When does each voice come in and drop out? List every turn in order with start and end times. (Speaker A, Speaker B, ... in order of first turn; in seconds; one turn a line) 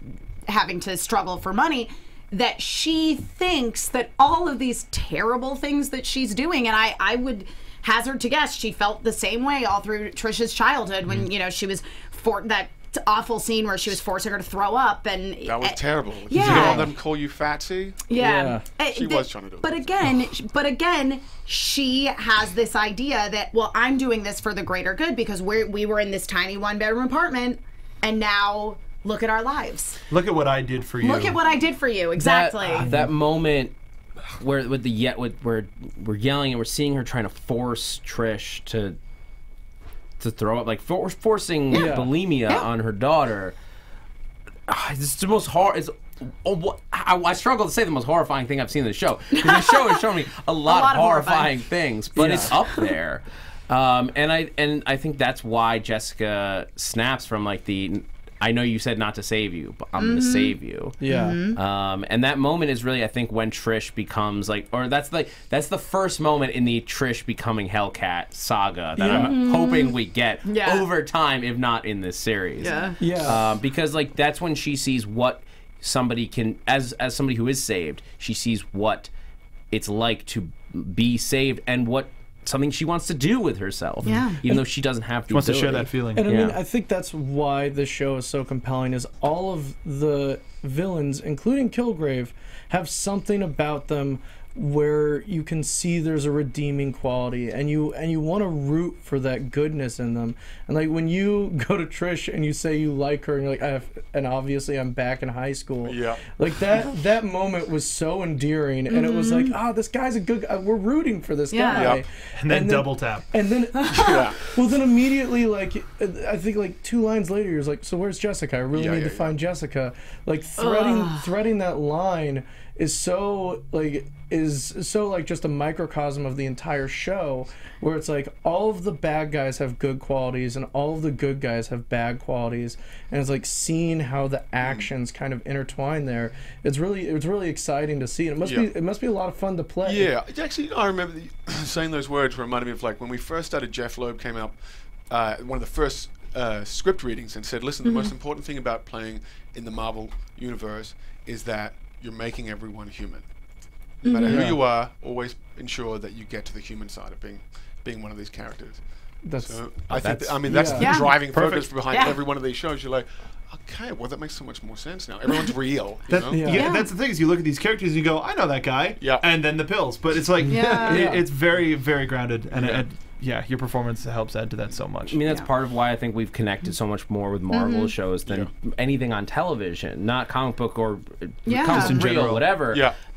Speaker A: 0.5-16.9
Speaker B: 15.4-18.0
Speaker C: 16.4-16.8
Speaker A: 18.1-30.0
Speaker D: 18.2-18.6
Speaker B: 18.9-20.1
Speaker C: 30.1-31.4
Speaker A: 31.0-32.9
Speaker E: 32.2-33.7
Speaker D: 32.8-33.1
Speaker E: 34.4-39.0
Speaker E: 40.2-43.5
Speaker D: 41.7-42.1
Speaker E: 44.7-61.0
Speaker A: 49.4-50.0
Speaker A: 50.7-51.5
Speaker D: 52.1-52.5
Speaker A: 60.0-61.6
Speaker D: 61.0-61.4
Speaker E: 61.5-79.1
Speaker D: 69.0-69.4
Speaker A: 69.1-70.8
Speaker A: 72.6-73.0
Speaker D: 73.0-73.5
Speaker E: 79.7-86.6
Speaker A: 84.0-84.4
Speaker C: 85.3-86.3
Speaker D: 86.2-140.1
Speaker B: 105.8-106.2
Speaker A: 108.9-109.5
Speaker A: 111.5-111.9
Speaker B: 111.7-112.0
Speaker C: 112.3-113.3
Speaker A: 113.8-114.2
Speaker B: 113.9-114.4
Speaker B: 118.7-119.4
Speaker A: 120.6-121.3
Speaker B: 134.6-134.9
Speaker B: 138.4-138.7
Speaker B: 139.8-153.3
Speaker A: 147.8-148.1
Speaker B: 154.0-166.5
Speaker A: 154.1-154.5
Speaker D: 154.3-154.6
Speaker D: 159.2-161.1
Speaker E: 159.9-160.5
Speaker A: 160.8-162.2
Speaker C: 166.1-175.2
Speaker D: 166.3-166.7
Speaker A: 166.5-166.9
Speaker B: 169.0-169.3
Speaker A: 170.4-171.1
Speaker D: 170.7-171.2
Speaker B: 172.5-172.8
Speaker E: 175.1-182.9
Speaker A: 177.5-177.9
Speaker A: 181.5-182.1
Speaker C: 181.7-182.5
Speaker B: 182.7-182.9